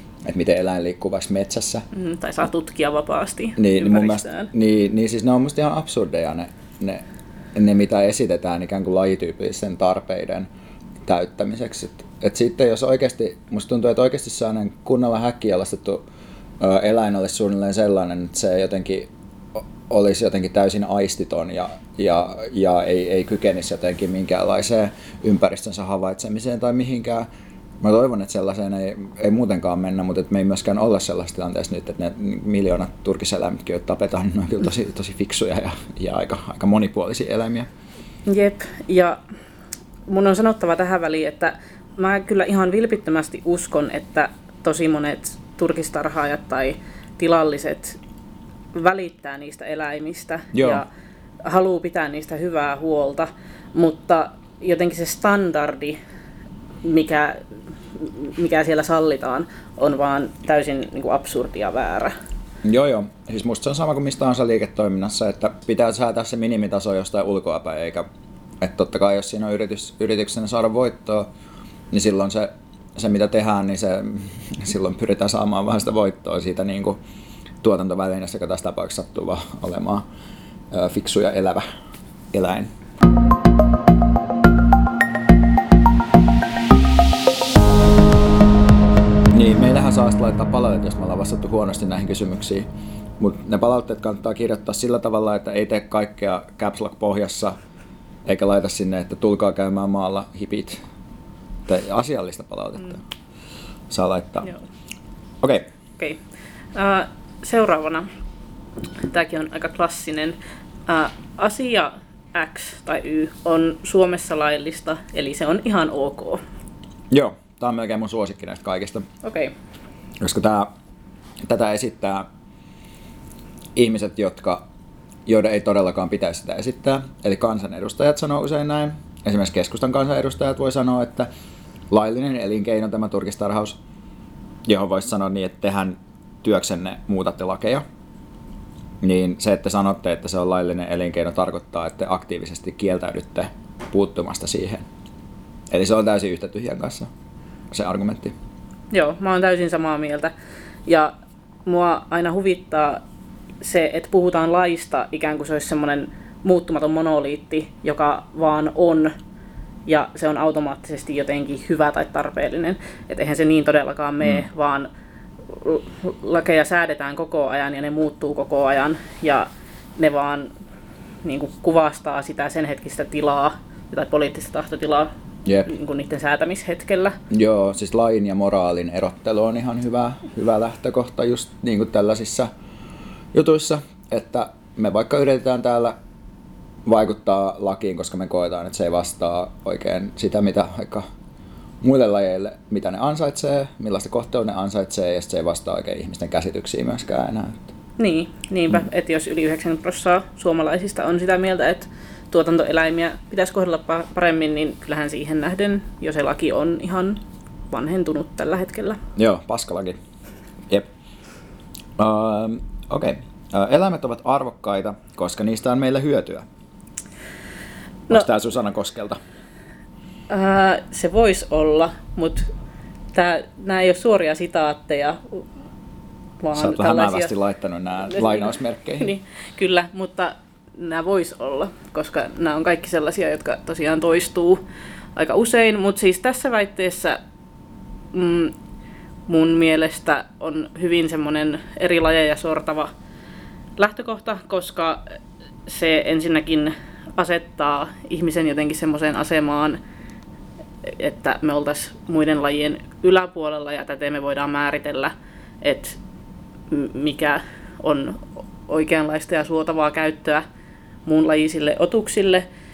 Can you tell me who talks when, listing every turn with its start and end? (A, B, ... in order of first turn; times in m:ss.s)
0:00.2-0:01.8 A
0:01.9-0:04.5 B
0:03.6-0:07.0 A
0:07.5-0:10.5 A
0:11.0-0:16.0 A
0:16.6-0:27.3 A
0:27.8-0:37.7 A
0:38.2-0:39.2 B
0:40.1-0:48.0 B
0:48.7-0:50.8 B
0:50.5-0:50.8 A
0:51.4-0:56.0 B
0:56.8-0:57.4 B
0:57.9-1:02.1 B
1:02.6-1:08.1 A
1:08.6-1:11.3 A
1:11.9-1:17.0 A
1:17.6-1:20.0 A
1:20.7-1:21.6 A
1:22.3-1:22.7 A
1:29.3-1:32.7 A
1:33.2-1:37.5 A
1:38.2-1:40.8 A
1:41.7-1:43.0 A
1:43.9-1:44.5 A
1:45.4-1:45.7 A
1:46.7-1:48.1 B
1:49.1-1:50.4 B
1:50.9-1:56.4 B
1:57.1-1:59.0 A
1:59.2-1:59.5 B
2:00.2-2:00.7 A
2:01.4-2:02.2 A
2:03.8-2:04.6 A
2:05.2-2:11.3 A
2:11.9-2:13.8 A
2:14.6-2:17.8 A
2:19.0-2:24.8 A
2:25.7-2:27.1 A
2:27.7-2:28.3 A
2:28.9-2:30.3 B
2:30.9-2:31.1 B
2:31.6-2:33.0 B
2:33.6-2:39.1 B
2:39.9-2:44.9 B
2:45.5-2:50.5 B
2:51.2-2:55.1 B
2:55.6-2:57.2 B
2:57.3-3:02.5 A
3:03.3-3:05.9 A
3:06.8-3:11.0 A
3:11.8-3:17.7 A
3:18.0-3:27.2 B
3:27.7-3:29.0 B
3:29.2-3:30.0 A
3:32.0-3:36.4 A
3:38.1-3:39.2 A
3:40.3-3:42.5 B
3:43.1-3:45.4 B
3:46.4-3:47.3 B
3:46.5-3:49.1 A
3:48.1-3:54.6 B
3:55.2-3:57.2 B
3:58.1-3:58.5 B
3:59.3-4:02.9 B
4:03.8-4:05.0 B
4:05.6-4:09.8 B
4:10.8-4:16.0 B
4:16.7-4:20.4 B
4:21.0-4:22.4 B